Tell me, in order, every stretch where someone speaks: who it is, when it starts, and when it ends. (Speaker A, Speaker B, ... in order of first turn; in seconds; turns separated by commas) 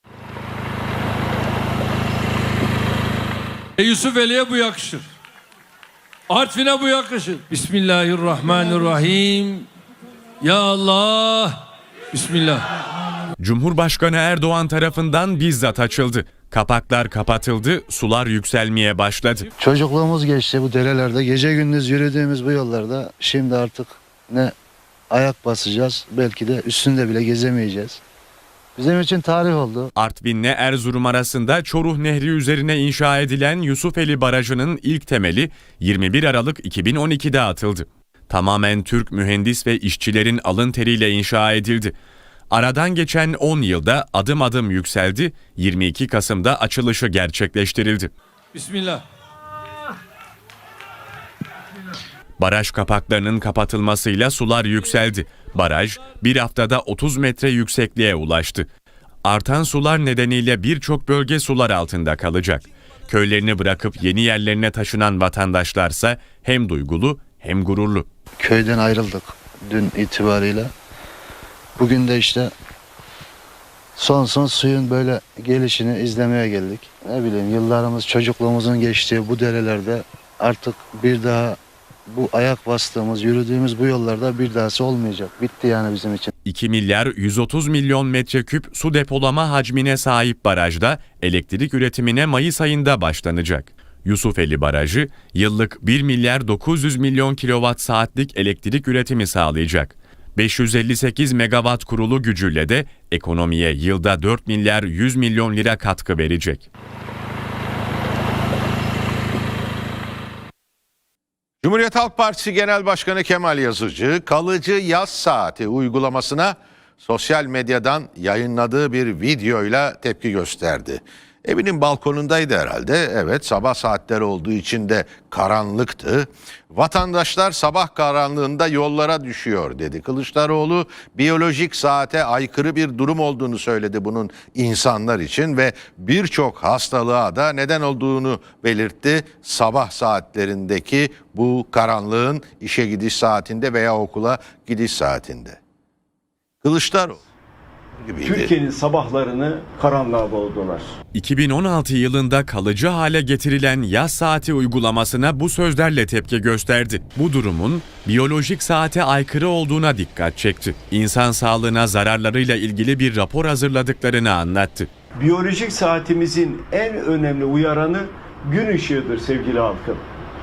Speaker A: 3.8-5.0, Speaker A: 6.3-9.6, Speaker A: 10.4-11.5, Speaker A: 12.1-12.6, Speaker B: 13.4-19.5, Speaker C: 19.6-24.5, Speaker C: 25.1-28.0, Speaker C: 28.8-29.9, Speaker B: 29.9-41.9, Speaker B: 42.5-48.1, Speaker A: 48.5-49.0, Speaker B: 52.4-58.7, Speaker B: 59.2-68.1, Speaker C: 68.4-70.7, Speaker C: 71.8-72.5, Speaker C: 74.0-86.3, Speaker B: 86.4-106.7, Speaker D: 111.6-145.6, Speaker D: 146.6-147.2, Speaker D: 148.1-148.5, Speaker E: 148.2-150.9, Speaker B: 151.1-164.9, Speaker E: 165.2-170.0